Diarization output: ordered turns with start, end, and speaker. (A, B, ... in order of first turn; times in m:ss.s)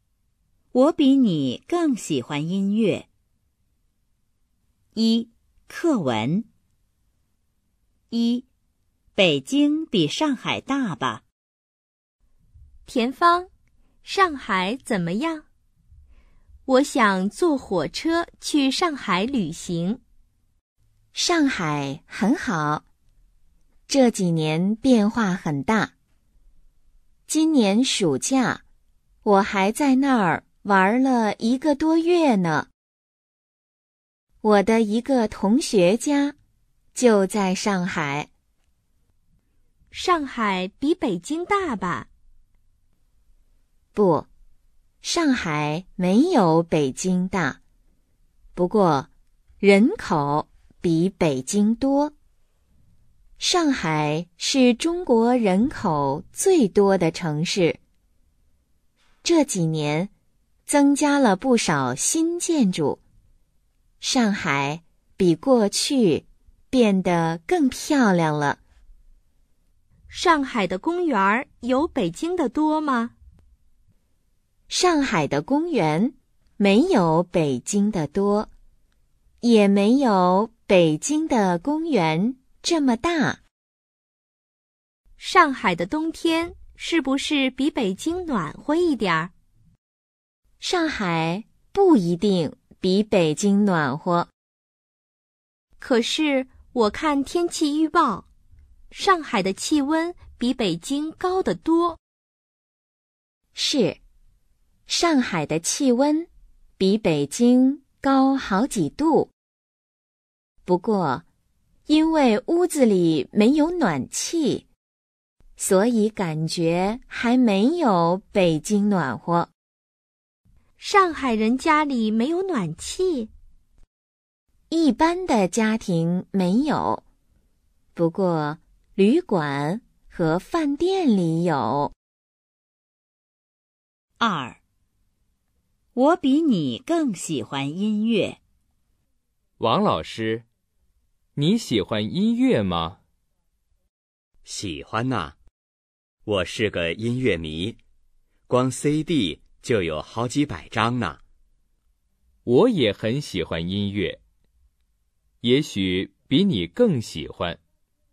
0:00.7-0:03.1 A
0:05.0-0:06.5 A
0:08.1-0:08.5 A
0:09.2-0:11.2 A
0:12.8-0:13.5 B
0:14.0-0:15.4 B
0:16.7-0:20.0 B
0:21.2-0:22.8 C
0:23.9-0:25.9 C
0:27.3-0:28.6 C
0:29.2-0:32.7 C
0:34.4-0:36.4 C
0:37.0-0:38.3 C
0:39.9-0:42.1 B
0:44.0-0:44.3 C
0:45.0-0:47.6 C
0:48.6-0:49.1 C
0:49.6-0:52.1 C
0:53.4-0:57.8 C
0:59.2-1:00.1 C
1:00.7-1:03.0 C
1:04.0-1:08.6 C
1:10.1-1:13.1 B
1:14.7-1:18.5 C
1:19.4-1:23.4 C
1:25.2-1:29.3 B
1:30.6-1:34.3 C
1:35.8-1:38.3 B
1:38.9-1:42.0 B
1:43.6-1:44.0 C
1:44.9-1:46.3 C
1:46.8-1:49.3 C
1:50.7-1:51.2 C
1:51.9-1:54.7 C
1:55.6-1:59.5 C
2:00.8-2:03.3 B
2:04.7-2:07.0 C
2:08.0-2:11.9 C
2:14.2-2:14.6 A
2:16.0-2:18.4 A
2:19.6-2:20.5 D
2:21.4-2:23.0 D
2:24.5-2:25.4 E
2:26.3-2:27.8 E
2:28.5-2:31.2 E
2:32.4-2:34.2 D
2:35.4-2:37.6 D